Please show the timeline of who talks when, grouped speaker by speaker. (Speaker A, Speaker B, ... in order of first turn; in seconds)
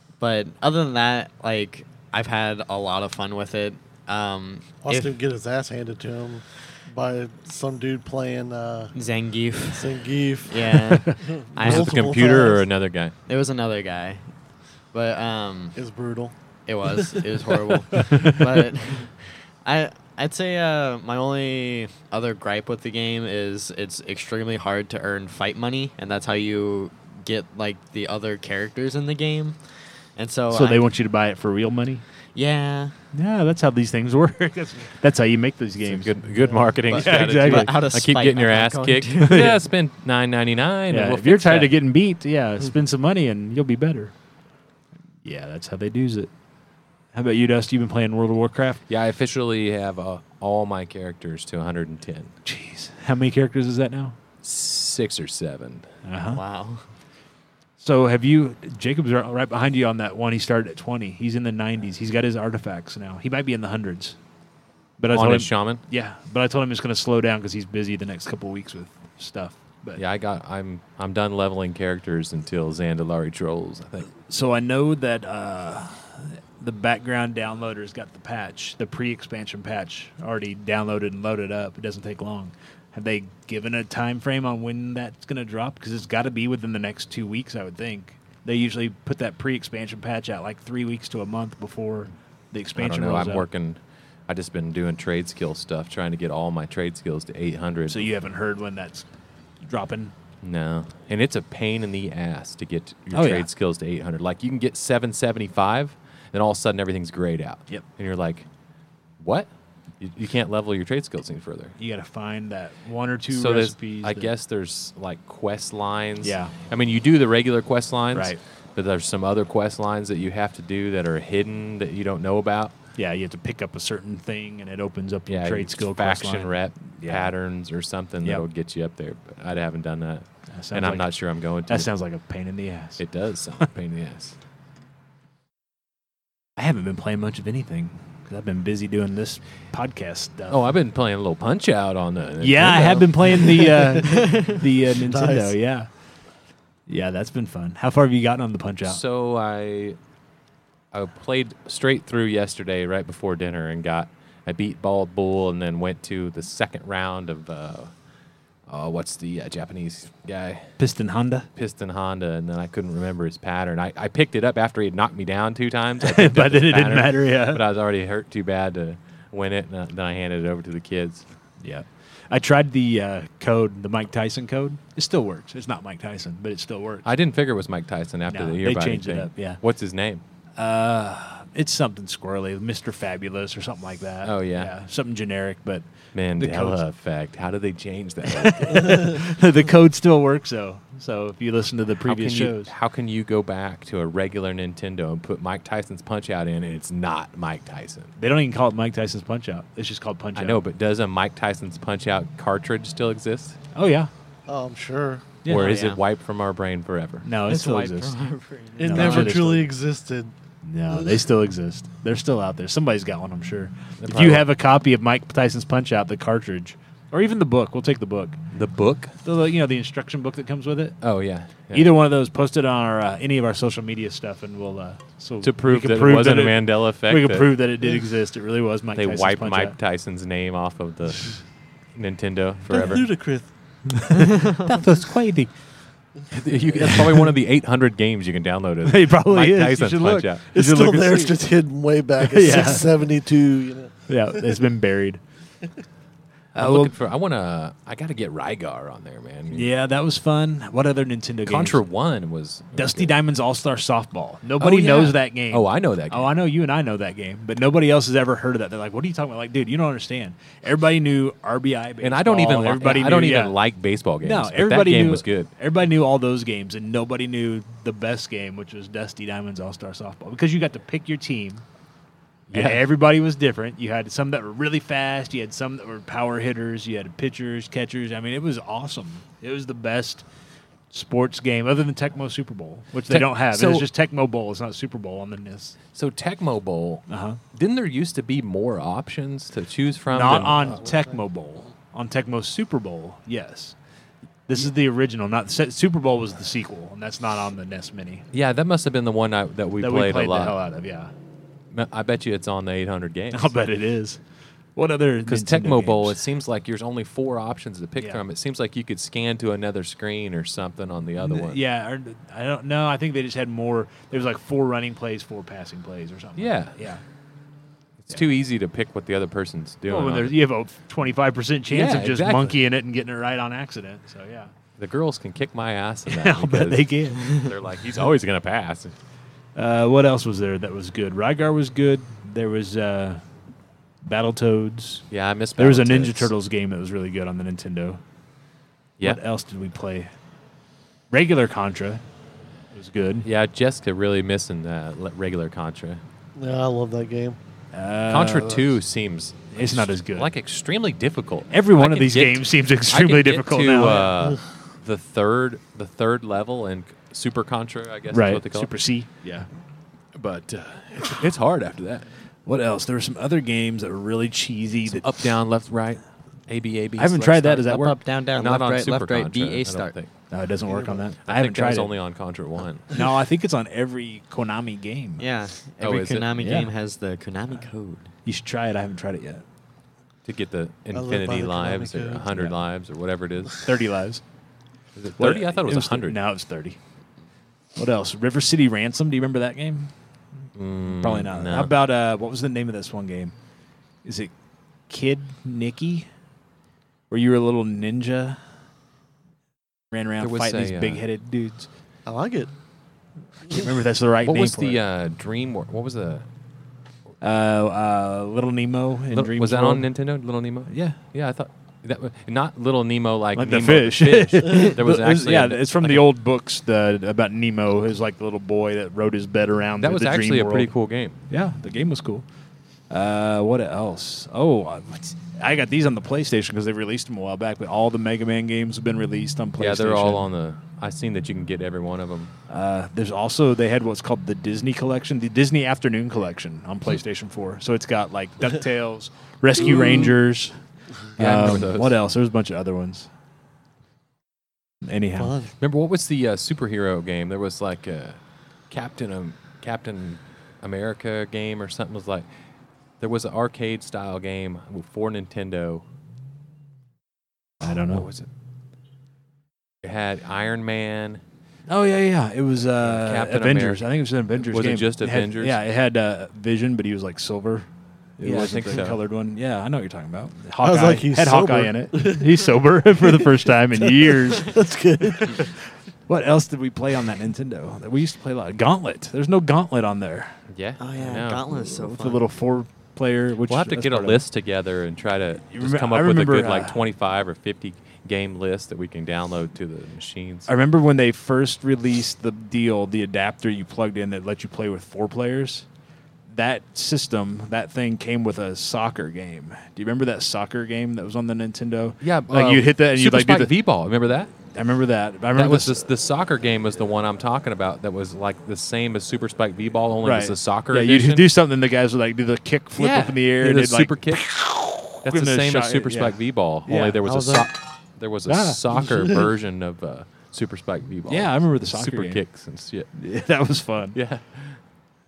Speaker A: 0.2-5.1, 8.9-9.9, 10.5-12.2, 13.3-14.2, 14.9-15.8, 16.7-30.9, 32.4-33.0, 36.9-39.5, 56.3-56.9, 207.4-209.4, 367.7-369.9, 375.2-378.1, 480.8-482.2
Speaker B: 4.8-8.9, 9.7-12.7, 15.8-17.4, 36.4-36.7, 144.9-145.6, 204.5-205.3, 208.8-210.3, 232.7-233.5, 240.5-244.5, 346.4-347.4, 370.7-371.0, 380.9-382.3, 402.1-402.5, 445.2-445.5, 470.6-475.5, 517.0-517.5, 518.9-519.1
Speaker C: 11.6-13.1, 35.8-41.7, 48.9-52.3, 54.4-55.9, 65.1-65.8, 70.0-74.1, 92.8-98.1, 100.4-108.5, 109.2-109.5, 110.0-111.7, 113.3-122.7, 125.3-131.9, 133.0-134.3, 140.5-143.7, 148.8-150.0, 150.9-157.9, 158.7-160.8, 161.6-171.2, 177.1-180.2, 184.2-184.7, 186.1-189.3, 192.1-198.1, 200.4-203.6, 205.5-207.3, 214.0-214.5, 218.5-219.1, 221.0-221.9, 225.4-227.5, 228.9-233.1, 236.3-240.8, 246.6-249.7, 251.5-253.2, 254.6-256.3, 262.0-265.5, 272.5-272.8, 283.1-283.9, 285.9-290.8, 298.3-300.6, 301.7-303.5, 305.3-311.6, 316.4-316.8, 318.1-320.4, 321.7-322.6, 324.8-328.9, 335.1-336.3, 343.2-346.0, 348.1-358.7, 360.1-362.1, 364.9-367.8, 368.4-370.1, 371.2-372.9, 375.8-376.3, 380.2-383.7, 385.0-386.2, 390.6-391.7, 400.2-401.0, 404.2-406.2, 409.1-416.1, 419.8-421.2, 429.6-432.3, 441.2-442.0, 445.6-448.2, 448.7-452.3, 453.0-455.8, 457.6-458.3, 459.8-461.2, 462.8-463.9, 464.4-465.6, 468.2-469.0, 480.5-481.6, 483.5-490.5, 502.0-504.3, 505.3-511.3, 512.8-514.3, 515.0-522.9, 523.9-524.6
Speaker D: 30.5-32.0, 33.1-36.1, 36.9-37.7, 39.2-39.6, 40.9-44.1, 45.2-46.3, 47.1-48.8, 52.5-54.2, 56.0-56.4, 57.8-64.2, 65.0-70.0, 74.3-93.5, 97.9-99.1, 99.6-100.1, 103.1-103.5, 111.8-114.3, 116.2-116.5, 118.1-118.4, 123.0-127.3, 130.5-131.1, 131.7-133.0, 136.6-140.6, 142.4-145.9, 146.9-149.0, 160.8-161.5, 166.0-167.6, 171.6-177.1, 178.3-179.6, 180.6-185.9, 186.4-186.8, 188.3-192.7, 198.2-200.6, 203.7-204.1, 205.4-206.0, 207.2-208.2, 208.8-209.7, 210.6-218.4, 219.2-221.0, 221.7-229.8, 234.0-235.5, 236.8-237.3, 238.8-241.3, 242.2-242.9, 244.1-245.2, 246.6-246.9, 249.5-251.8, 252.7-263.6, 264.2-271.6, 272.5-280.2, 280.9-285.8, 287.1-287.4, 290.1-293.8, 294.5-298.2, 299.8-301.1, 303.3-304.2, 304.8-306.2, 311.2-317.0, 319.9-324.5, 326.1-327.4, 329.6-333.2, 334.0-335.1, 335.6-338.0, 339.0-340.1, 341.1-342.0, 342.7-343.3, 347.7-348.7, 349.5-350.3, 351.5-354.1, 358.1-359.5, 362.5-365.2, 367.0-368.0, 370.3-371.9, 372.9-375.2, 376.4-376.7, 378.2-379.4, 383.6-384.2, 385.2-386.8, 387.8-389.9, 391.0-393.3, 394.0-394.3, 394.9-396.1, 397.1-398.4, 399.9-401.7, 403.5-404.8, 407.2-409.9, 410.7-411.0, 413.4-420.7, 421.3-422.2, 422.9-430.2, 432.5-440.6, 441.2-443.1, 444.8-445.3, 457.6-458.1, 461.7-467.7, 468.2-474.6, 475.2-475.5, 476.1-480.3, 481.6-484.2, 485.5-486.8, 490.5-495.7, 496.3-503.5, 504.5-505.8, 510.0-516.1, 516.7-517.0, 518.3-518.6, 521.1-522.2, 523.0-524.0